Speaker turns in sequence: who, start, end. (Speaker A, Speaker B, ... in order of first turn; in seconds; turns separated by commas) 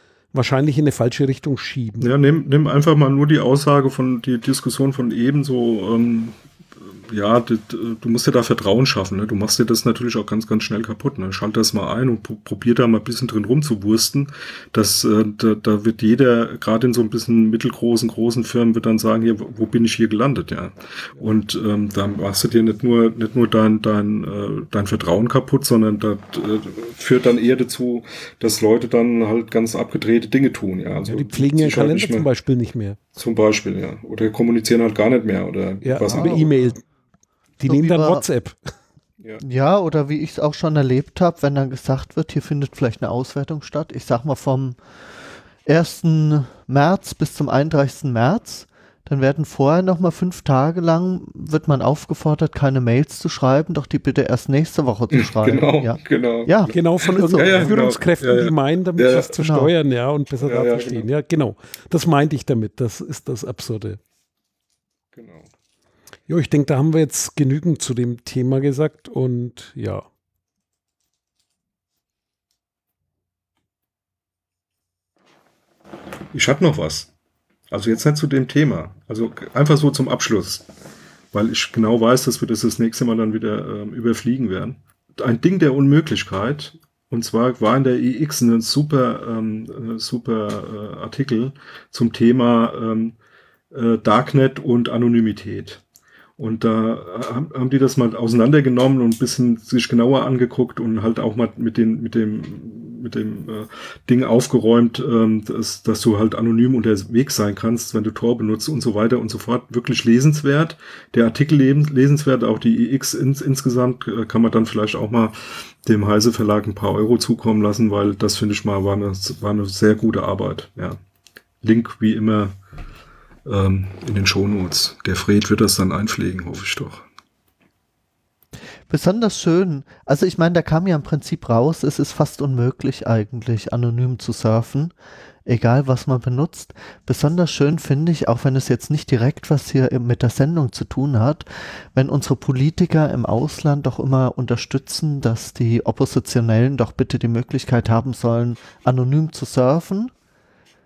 Speaker A: 0.3-2.1, Speaker B: 2.0-32.3, Speaker A: 31.1-33.0, Speaker B: 33.1-36.4, Speaker A: 35.8-36.8, Speaker C: 36.0-36.5, Speaker A: 37.6-38.6, Speaker C: 37.7-38.2, Speaker C: 39.4-44.8, Speaker C: 45.6-57.7, Speaker B: 55.1-59.3, Speaker A: 56.7-64.0, Speaker C: 59.4-59.7, Speaker B: 60.4-61.1, Speaker B: 65.1-65.5, Speaker A: 66.3-70.0, Speaker B: 76.3-77.1, Speaker B: 77.7-80.7, Speaker B: 81.3-93.2, Speaker B: 93.7-95.8, Speaker B: 96.4-121.0, Speaker B: 121.6-122.5, Speaker B: 123.5-127.0, Speaker C: 128.9-134.9, Speaker C: 135.4-150.1